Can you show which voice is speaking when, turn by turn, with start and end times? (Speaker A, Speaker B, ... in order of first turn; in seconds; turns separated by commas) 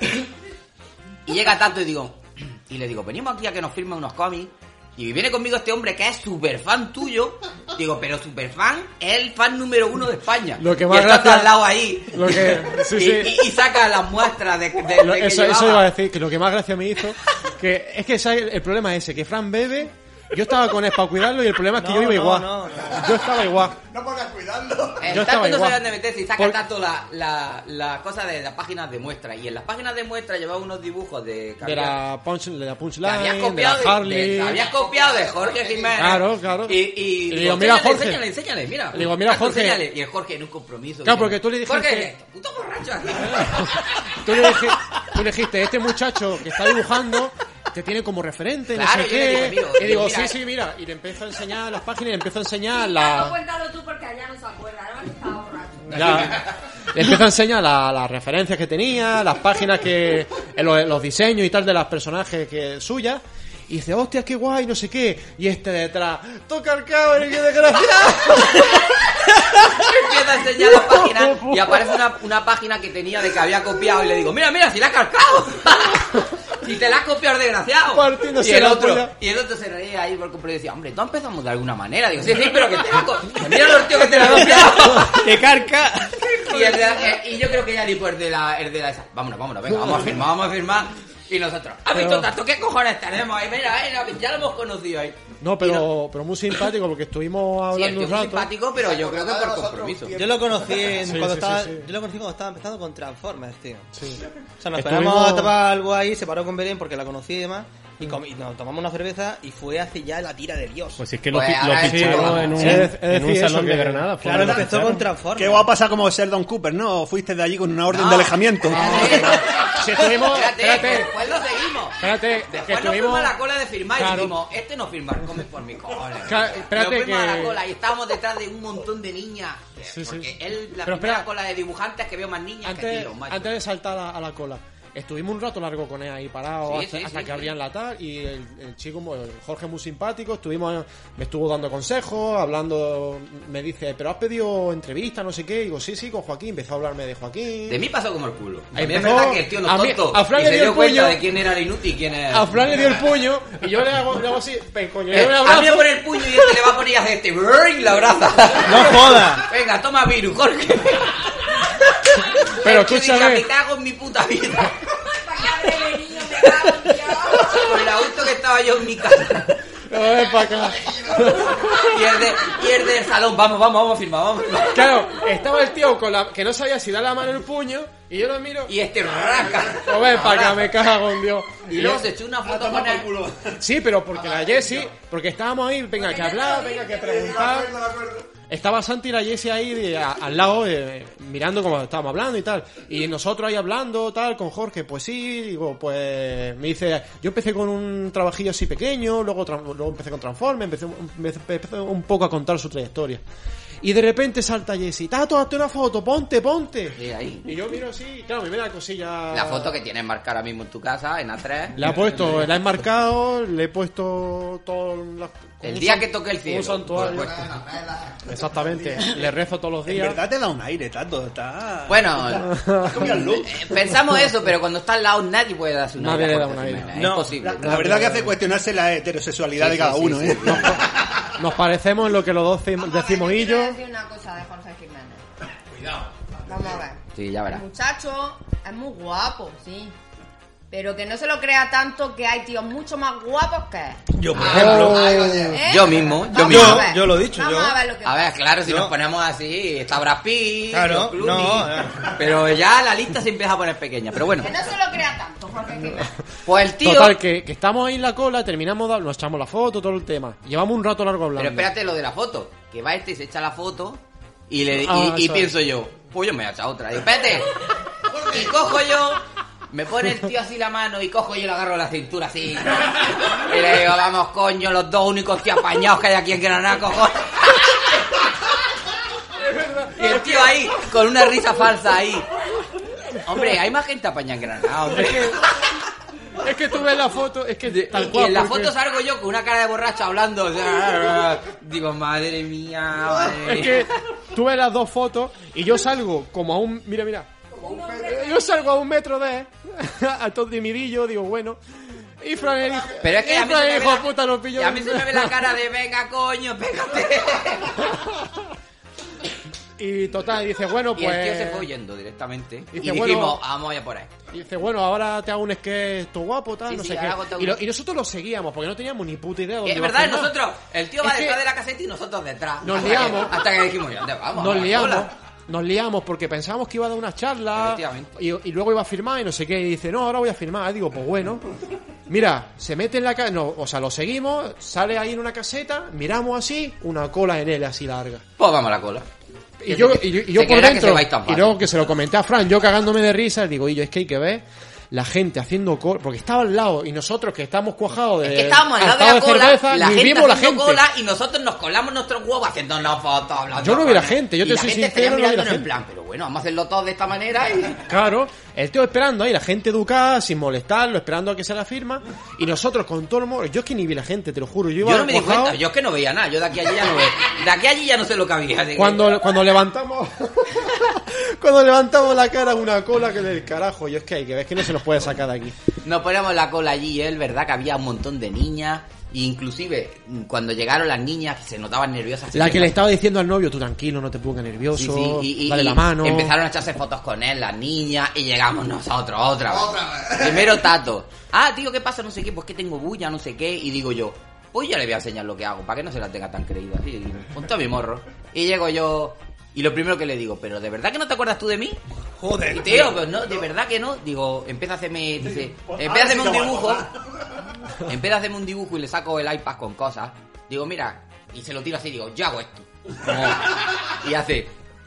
Speaker A: 1.3-15.9, Speaker B: 10.6-13.4, Speaker B: 14.8-23.8, Speaker C: 21.8-23.1, Speaker D: 23.1-25.2, Speaker A: 25.0-32.0, Speaker B: 25.1-25.8, Speaker B: 26.4-26.6, Speaker B: 31.6-34.6, Speaker A: 33.0-43.8, Speaker D: 34.5-36.2, Speaker B: 36.0-38.2, Speaker B: 38.9-39.9, Speaker B: 41.0-42.1, Speaker B: 43.2-53.4, Speaker A: 48.7-50.3, Speaker E: 52.8-56.4, Speaker B: 55.9-69.0, Speaker A: 56.0-56.2, Speaker A: 68.4-68.7, Speaker A: 69.6-85.3, Speaker B: 70.7-72.0, Speaker B: 77.9-79.1, Speaker B: 84.2-85.2, Speaker C: 85.0-86.8, Speaker A: 86.2-95.9, Speaker B: 89.7-90.3, Speaker B: 91.9-92.3, Speaker B: 95.4-98.5, Speaker A: 97.7-100.2, Speaker D: 98.8-100.8, Speaker C: 100.2-103.9, Speaker B: 101.0-101.9, Speaker B: 104.0-104.2, Speaker C: 104.6-111.0, Speaker B: 104.8-105.5, Speaker F: 111.0-114.9, Speaker A: 111.3-112.9, Speaker B: 111.8-115.0, Speaker C: 114.2-115.7, Speaker G: 115.3-119.5, Speaker A: 117.9-133.6, Speaker B: 118.8-121.3, Speaker B: 122.0-123.3, Speaker B: 123.9-124.4, Speaker B: 126.2-127.6, Speaker B: 129.9-130.3, Speaker B: 130.8-131.3, Speaker B: 132.6-147.8, Speaker A: 136.6-137.5, Speaker A: 147.7-152.5, Speaker B: 148.7-151.2, Speaker B: 152.3-156.6, Speaker A: 155.1-161.3, Speaker C: 158.7-159.4, Speaker A: 162.2-164.8, Speaker B: 162.6-163.5, Speaker E: 165.2-167.5, Speaker A: 167.3-169.6, Speaker B: 169.9-172.0, Speaker D: 170.8-171.5, Speaker A: 171.7-175.1, Speaker B: 174.7-178.7, Speaker A: 178.7-180.7, Speaker B: 179.6-182.1, Speaker A: 181.7-183.1, Speaker G: 182.4-183.6, Speaker B: 183.6-187.8, Speaker D: 184.2-184.8, Speaker E: 186.1-186.9, Speaker D: 187.0-188.3, Speaker B: 188.5-203.2, Speaker B: 203.8-209.8, Speaker A: 207.0-207.5, Speaker A: 209.3-212.3, Speaker B: 211.8-217.5, Speaker A: 215.6-217.4, Speaker D: 216.9-218.9, Speaker B: 218.3-220.2, Speaker G: 219.9-223.6, Speaker A: 221.9-222.5, Speaker B: 222.4-223.2, Speaker A: 223.1-227.8, Speaker B: 224.0-224.2, Speaker B: 226.0-228.3, Speaker C: 226.9-228.3, Speaker G: 227.6-230.8, Speaker A: 229.6-230.8, Speaker B: 231.4-233.8, Speaker E: 232.8-235.2, Speaker E: 236.5-237.0, Speaker A: 237.1-237.6, Speaker E: 237.5-239.9, Speaker E: 240.7-244.0, Speaker C: 244.2-245.5, Speaker A: 244.3-246.9, Speaker D: 244.4-245.6, Speaker G: 244.6-245.4, Speaker E: 245.5-248.2, Speaker C: 246.4-247.8, Speaker A: 248.0-254.6, Speaker C: 248.6-248.9, Speaker C: 250.7-252.1, Speaker E: 254.4-256.1, Speaker A: 256.4-257.2, Speaker B: 256.8-261.7, Speaker A: 261.4-267.5, Speaker B: 264.7-265.6, Speaker A: 268.2-278.0, Speaker B: 279.5-280.4, Speaker A: 279.9-282.3, Speaker A: 283.2-285.4, Speaker B: 284.9-285.5, Speaker B: 286.4-288.7, Speaker A: 287.7-293.9, Speaker B: 293.3-297.3, Speaker D: 297.6-298.2, Speaker B: 297.9-305.4, Speaker A: 303.0-307.9, Speaker B: 309.8-311.7, Speaker A: 310.9-314.1, Speaker B: 312.7-313.4, Speaker B: 314.3-320.3, Speaker A: 316.7-317.6, Speaker A: 319.6-325.1, Speaker B: 321.0-321.4, Speaker B: 322.6-323.4, Speaker B: 324.4-331.5, Speaker A: 327.5-328.1, Speaker B: 332.1-338.2, Speaker A: 338.4-339.1, Speaker B: 339.6-350.8, Speaker A: 339.7-341.6, Speaker A: 348.2-357.8, Speaker B: 353.6-355.7, Speaker B: 357.9-365.6, Speaker A: 364.8-369.0, Speaker B: 368.8-375.6, Speaker A: 375.8-382.8, Speaker B: 382.3-386.3, Speaker A: 384.7-401.8, Speaker D: 389.4-390.6, Speaker C: 402.2-403.0, Speaker A: 402.5-406.9, Speaker G: 405.6-406.8, Speaker A: 407.8-414.5